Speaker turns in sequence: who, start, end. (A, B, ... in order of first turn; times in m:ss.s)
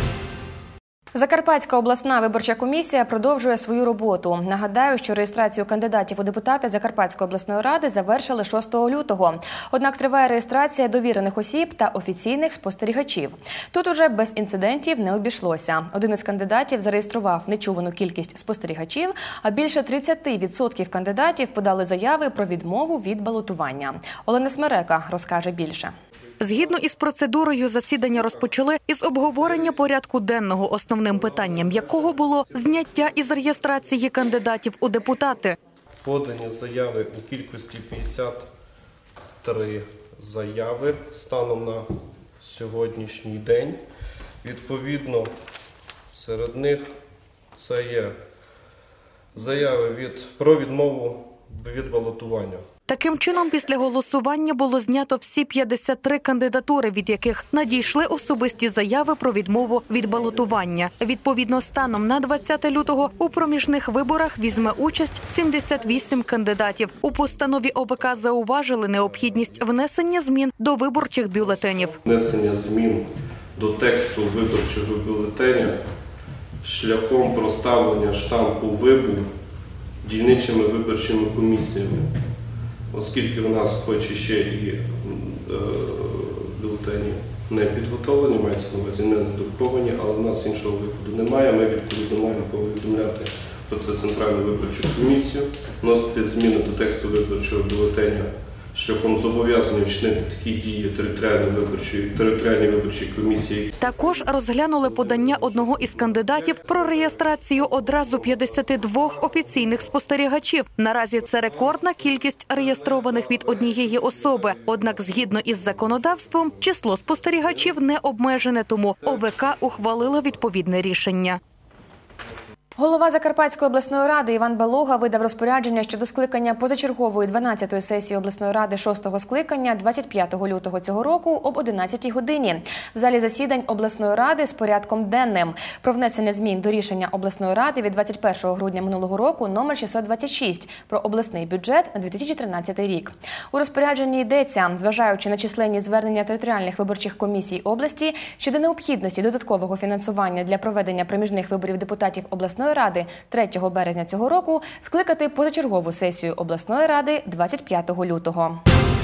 0:01.1-0:25.9 A
0:26.4-0:35.6 B
0:36.0-0:38.5 C
0:39.4-0:43.8 C
0:44.4-0:45.3 C
0:46.1-0:47.0 C
0:47.5-0:48.2 C
0:49.3-0:52.7 C
0:52.9-1:12.0 B
1:12.0-1:15.8 C
1:16.6-1:19.3 C
1:20.0-1:22.1 C
1:22.9-1:43.7 C
1:43.8-2:01.4 B
2:02.8-2:38.6 A